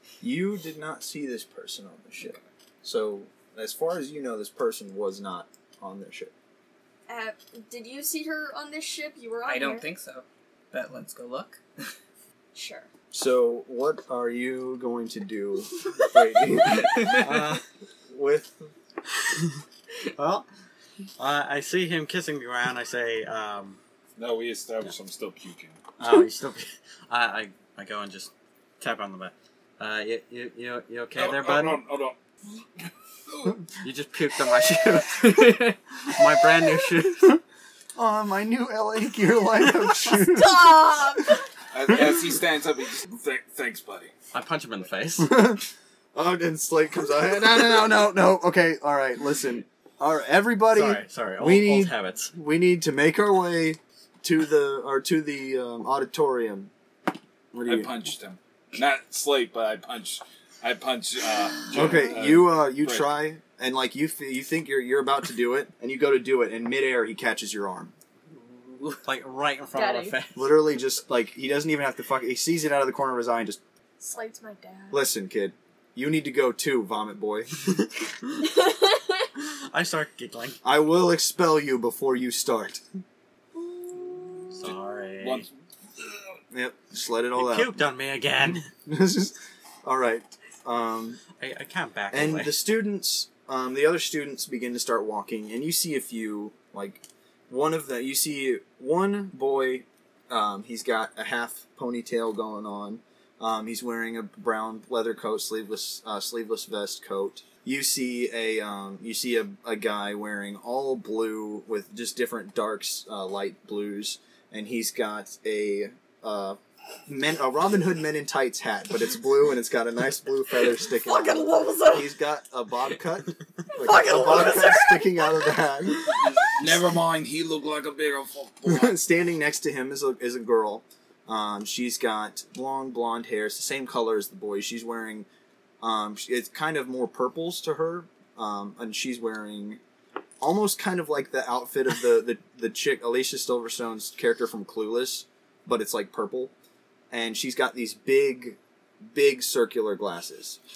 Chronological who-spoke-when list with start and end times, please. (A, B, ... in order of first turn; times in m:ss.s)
0:00.2-0:06.3 A
0:07.1-0:09.9 B
0:09.4-0:11.6 C
0:12.6-0:12.9 B
0:13.1-0:18.7 A
0:16.8-0:17.3 C
0:20.2-0:20.5 D
0:21.2-0:23.8 D
0:24.2-0:25.8 E
0:26.0-0:31.8 D
0:31.2-0:32.2 E
0:33.3-0:33.6 E
0:33.8-0:35.6 D
0:35.2-0:35.8 C
0:36.1-0:37.3 D
0:38.0-0:42.2 A
0:40.1-0:41.4 B
0:41.7-0:44.1 E
0:44.3-0:45.3 D
0:45.2-0:56.7 A
0:50.7-0:52.3 D
0:57.5-0:57.9 A
0:57.6-1:03.1 E
1:01.7-1:07.9 A
1:08.4-1:09.0 C
1:09.0-1:10.5 D
1:09.8-1:10.2 B
1:10.4-1:13.6 A
1:14.0-1:15.0 B
1:14.9-1:17.5 A
1:18.6-1:19.0 B
1:19.4-1:20.6 D
1:20.6-1:22.8 A
1:23.8-1:24.5 B
1:24.5-1:25.5 D
1:25.2-1:25.5 E
1:26.5-1:27.8 A
1:27.4-1:28.7 D
1:28.9-1:31.2 A
1:31.4-1:32.6 D
1:32.1-2:06.8 A
2:01.0-2:02.1 B
2:03.8-2:05.5 B
2:06.2-2:09.0 E
2:08.7-2:15.3 A
2:15.8-2:19.8 A
2:20.4-2:26.5 A
2:27.1-2:30.6 A